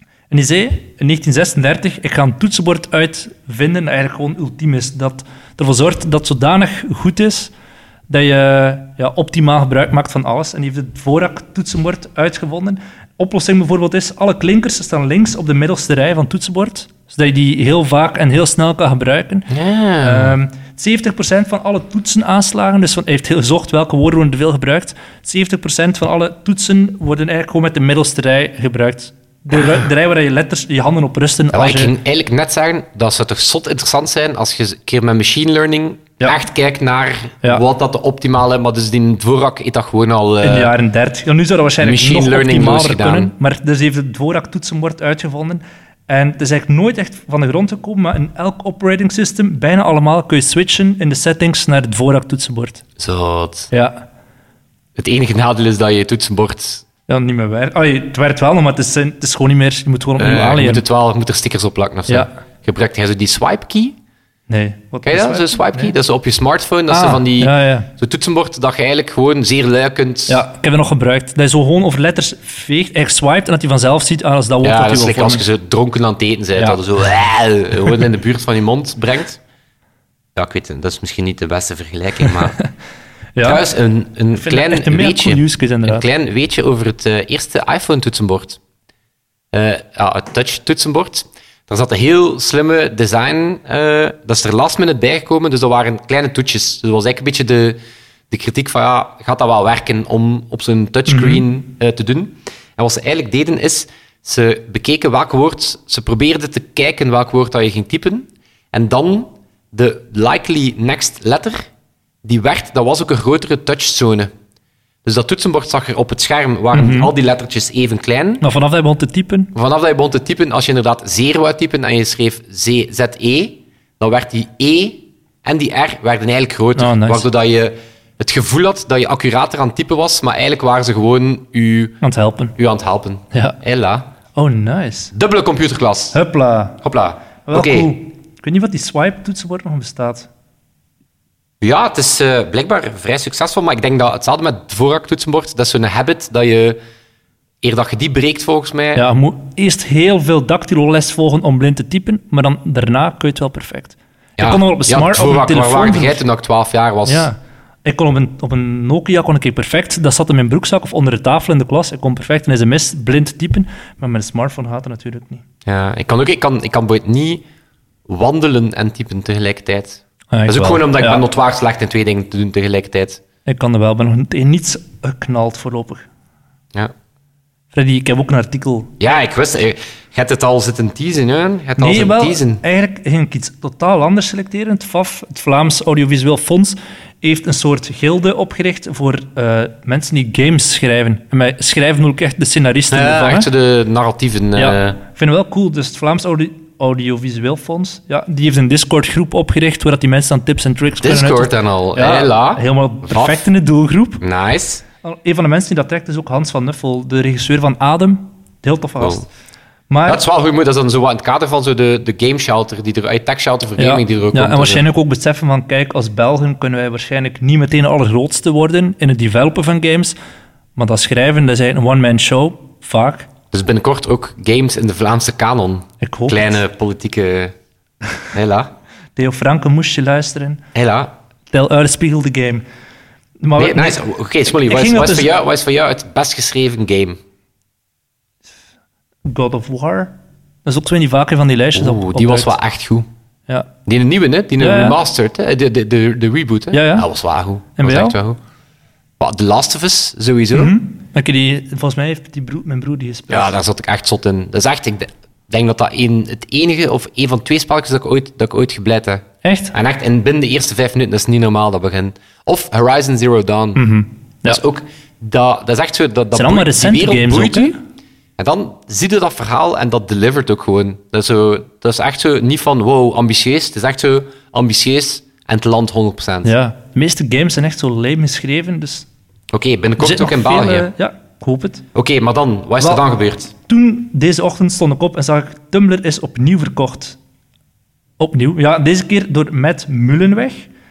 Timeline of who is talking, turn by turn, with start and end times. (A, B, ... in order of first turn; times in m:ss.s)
0:00.3-0:07.5 A
0:08.1-0:31.9 A
0:19.5-0:20.4 B
0:31.5-0:40.7 B
0:40.4-0:52.8 A
0:41.8-0:43.3 B
0:53.0-0:53.7 B
0:53.7-0:54.0 A
0:55.0-0:56.8 B
0:57.1-1:00.8 A
1:00.2-1:04.0 B
1:04.5-1:05.9 A
1:05.0-1:10.4 B
1:06.9-1:07.9 A
1:10.3-1:15.4 A
1:14.6-1:19.4 B
1:20.4-1:22.6 B
1:22.2-1:22.6 A
1:23.4-1:23.6 A
1:23.4-1:28.6 B
1:24.3-1:26.0 A
1:29.5-1:37.8 B
1:38.3-1:51.6 B
1:41.1-1:41.4 A
1:52.2-1:54.3 B
1:55.0-1:58.4 B
1:56.7-1:57.1 A
1:58.4-1:59.5 A
1:59.5-2:12.0 B
2:06.8-2:07.2 A
2:12.0-2:12.5 A
2:12.6-2:14.1 B
2:14.4-2:15.1 A
2:15.1-2:16.2 B
2:16.1-2:16.8 A
2:16.8-2:17.9 B
2:17.4-2:20.3 A
2:21.6-2:26.8 B
2:27.6-2:29.0 B
2:28.9-2:36.2 A
2:34.4-2:37.3 B
2:37.0-2:45.4 A
2:45.6-2:47.4 B
2:48.1-2:53.2 B
2:50.3-2:51.2 A
2:53.4-2:56.1 A
2:57.7-2:58.9 A
2:59.0-3:02.6 B
3:01.8-3:13.5 A
3:12.9-3:15.0 B
3:14.6-3:24.2 A
3:21.0-3:23.4 B
3:24.2-3:24.8 B
3:25.0-3:29.3 A
3:29.0-3:29.2 B
3:29.9-3:30.2 A
3:30.0-3:34.8 B
3:33.8-3:40.1 A
3:40.8-3:43.3 A
3:43.5-3:47.5 B
3:46.0-3:46.6 A
3:48.3-3:48.7 B
3:49.2-3:50.6 A
3:50.7-3:51.2 B
3:51.5-3:52.6 A
3:53.4-3:55.3 A
3:53.6-3:57.2 B
3:59.2-4:00.1 A
4:00.6-4:02.5 A
4:01.8-4:03.1 B
4:03.8-4:08.4 B
4:04.6-4:05.0 A
4:06.7-4:07.1 A
4:07.8-4:08.2 A
4:09.2-4:10.7 B
4:10.5-4:13.5 A
4:13.3-4:23.8 B
4:19.4-4:19.7 A
4:23.7-4:24.6 A
4:24.4-4:27.8 B
4:26.3-4:27.8 A
4:28.4-4:36.5 B
4:36.4-4:39.1 A
4:39.5-4:40.9 B
4:40.0-4:41.8 A
4:41.9-4:43.5 B
4:42.8-4:43.0 A
4:43.6-4:47.2 A
4:48.2-4:50.7 A